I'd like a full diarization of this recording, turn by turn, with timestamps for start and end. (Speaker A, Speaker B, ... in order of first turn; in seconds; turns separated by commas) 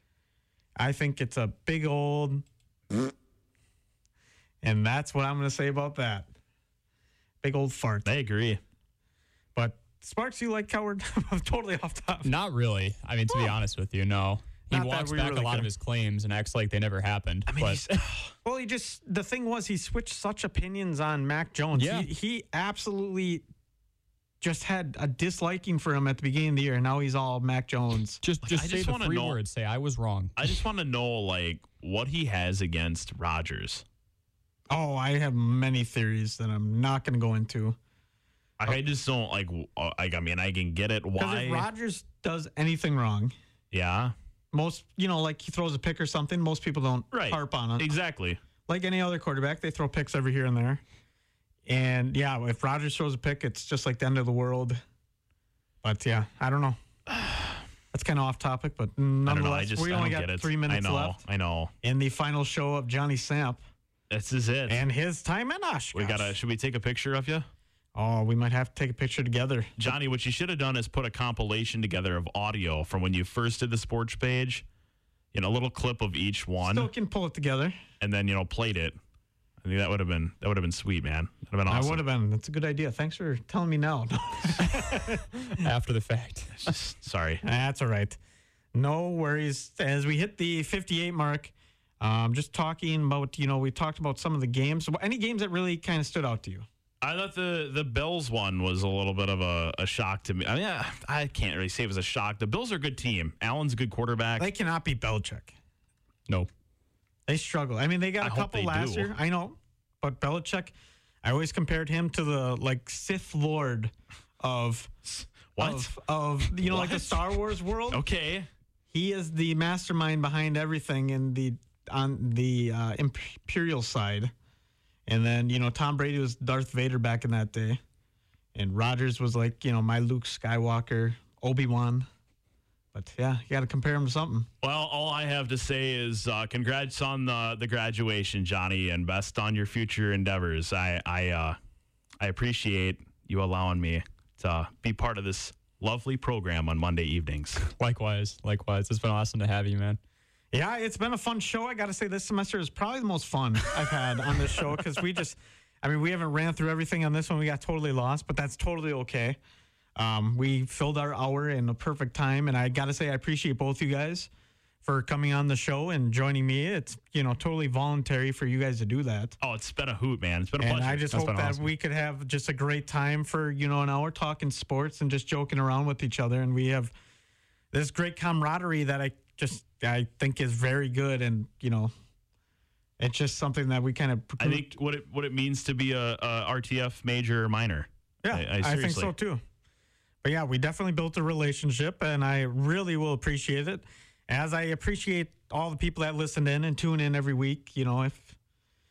Speaker A: 0.8-2.5, Speaker A: 4.6-6.3, Speaker A: 7.4-8.1, Speaker B: 8.1-8.6, Speaker A: 9.6-12.3, Speaker C: 12.2-17.9, Speaker A: 14.7-15.7, Speaker B: 17.5-18.3, Speaker A: 18.4-23.4, Speaker C: 21.8-22.1, Speaker A: 24.4-28.2, Speaker C: 28.2-30.5, Speaker B: 28.4-29.4, Speaker B: 30.4-33.8, Speaker A: 34.7-37.8, Speaker B: 38.6-41.7, Speaker A: 41.2-43.3, Speaker B: 43.7-44.1, Speaker A: 44.5-47.9, Speaker B: 47.1-48.4, Speaker A: 48.7-50.8, Speaker A: 51.7-54.8, Speaker A: 55.8-56.8, Speaker B: 57.1-57.6, Speaker A: 57.9-61.2, Speaker B: 59.3-61.7, Speaker A: 61.8-63.6, Speaker B: 64.1-64.8, Speaker A: 64.7-66.4, Speaker B: 65.9-67.5, Speaker A: 68.0-69.7, Speaker B: 69.8-74.6, Speaker B: 75.3-76.9, Speaker A: 76.6-77.8, Speaker B: 78.0-79.0, Speaker B: 79.6-82.0, Speaker A: 81.7-85.7, Speaker C: 84.6-86.7, Speaker B: 86.6-87.4, Speaker A: 87.4-88.2, Speaker A: 88.7-96.7, Speaker B: 97.0-104.5, Speaker A: 104.4-105.5, Speaker A: 107.3-114.9, Speaker B: 108.2-109.1, Speaker B: 115.1-118.5, Speaker A: 115.6-118.0, Speaker A: 118.9-124.3, Speaker A: 125.1-127.8, Speaker A: 128.5-132.1, Speaker A: 132.9-134.5, Speaker B: 134.6-141.6, Speaker B: 142.2-147.6, Speaker C: 147.6-150.0, Speaker A: 150.5-159.4, Speaker A: 160.0-164.3, Speaker A: 164.8-169.4, Speaker B: 169.4-171.1, Speaker A: 170.6-176.9, Speaker C: 171.1-171.7, Speaker A: 177.7-181.9, Speaker A: 183.0-184.7, Speaker B: 184.4-189.1, Speaker A: 188.2-189.4, Speaker A: 190.2-198.4